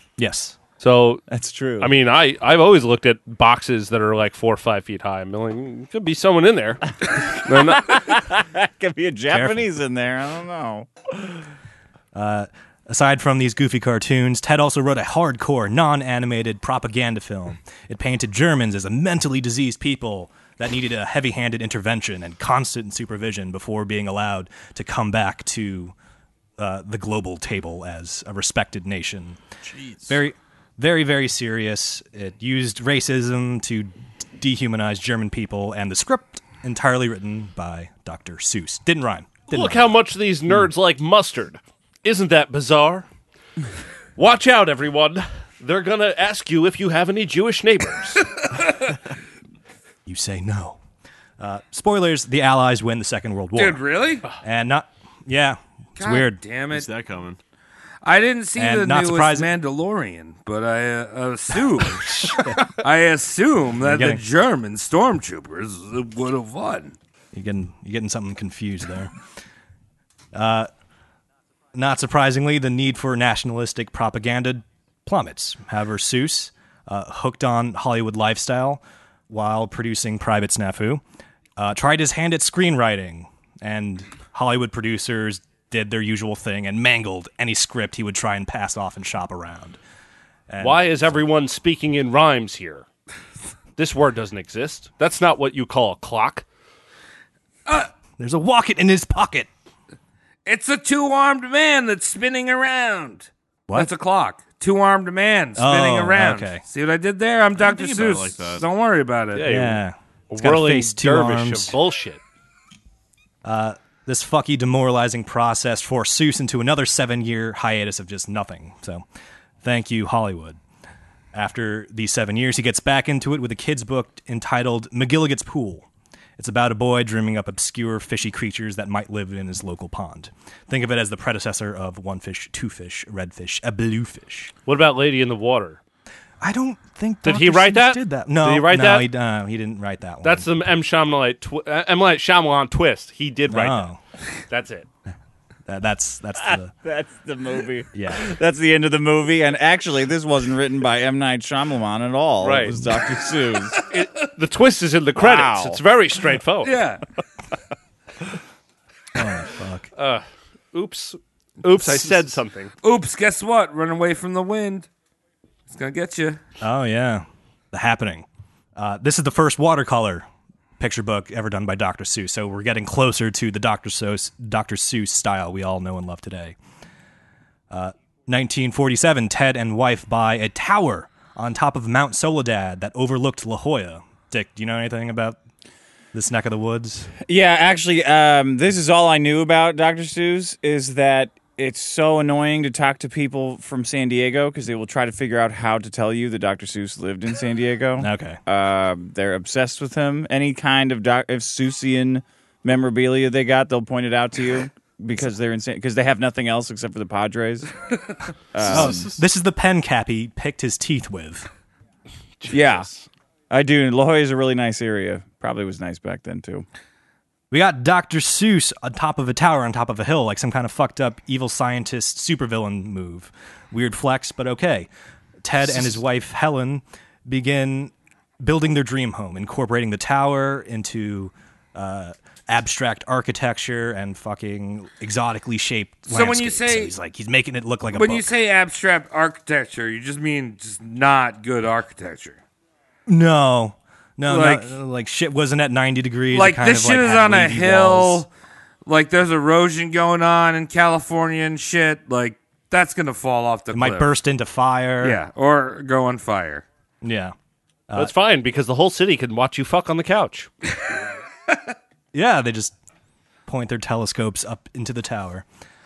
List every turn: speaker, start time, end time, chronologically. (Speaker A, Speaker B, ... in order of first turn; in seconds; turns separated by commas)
Speaker A: 0.2-0.6, Speaker B: 0.8-1.2, Speaker C: 1.3-1.9, Speaker B: 1.8-8.1, Speaker C: 7.6-10.9, Speaker A: 9.3-9.7, Speaker A: 12.1-25.9, Speaker A: 26.6-29.4, Speaker D: 29.6-30.2, Speaker A: 30.1-39.9, Speaker B: 39.5-43.0, Speaker B: 44.2-48.2, Speaker A: 50.0-50.8, Speaker A: 51.4-53.8, Speaker E: 53.5-54.2, Speaker A: 54.4-56.4, Speaker E: 56.0-56.9, Speaker D: 56.7-57.4, Speaker E: 58.0-66.9, Speaker A: 58.5-59.5, Speaker A: 63.8-64.2, Speaker A: 67.3-69.1, Speaker A: 70.3-70.7, Speaker A: 71.7-81.0, Speaker A: 81.6-89.8, Speaker A: 90.5-91.2, Speaker B: 90.6-92.8, Speaker B: 93.8-96.4, Speaker A: 98.2-99.5, Speaker E: 100.5-109.5, Speaker A: 105.5-106.6, Speaker D: 107.5-108.7, Speaker B: 109.3-109.8, Speaker A: 109.4-111.8, Speaker B: 110.3-112.2, Speaker A: 113.4-119.0, Speaker A: 119.6-120.6, Speaker A: 121.3-125.9, Speaker A: 126.4-134.5, Speaker B: 134.7-135.8, Speaker A: 136.4-140.5, Speaker B: 137.2-139.1, Speaker B: 140.2-143.8, Speaker A: 143.5-144.0, Speaker B: 144.5-144.9, Speaker A: 145.7-146.7, Speaker C: 146.8-153.8, Speaker A: 147.9-148.3, Speaker B: 152.4-152.7, Speaker B: 153.9-156.8, Speaker C: 155.2-155.8, Speaker E: 156.6-157.0, Speaker A: 159.1-159.9, Speaker B: 160.0-162.7, Speaker E: 162.8-164.9, Speaker E: 165.7-166.4, Speaker A: 166.6-170.2, Speaker A: 170.8-176.6, Speaker A: 177.7-185.4, Speaker A: 186.1-187.1, Speaker C: 187.2-207.7, Speaker A: 198.0-198.4, Speaker C: 208.5-209.1, Speaker D: 208.7-209.1, Speaker A: 208.7-211.5, Speaker B: 212.4-213.1, Speaker C: 212.5-212.9, Speaker C: 213.5-216.6, Speaker A: 217.5-224.9, Speaker A: 225.4-238.3, Speaker E: 236.1-236.9, Speaker E: 237.9-242.4, Speaker A: 243.1-248.2, Speaker E: 244.3-244.7, Speaker E: 246.3-248.3, Speaker E: 248.8-254.1, Speaker A: 253.7-255.2, Speaker E: 255.0-256.6, Speaker A: 257.0-257.3, Speaker B: 257.9-260.5, Speaker A: 262.1-262.7, Speaker A: 263.4-265.4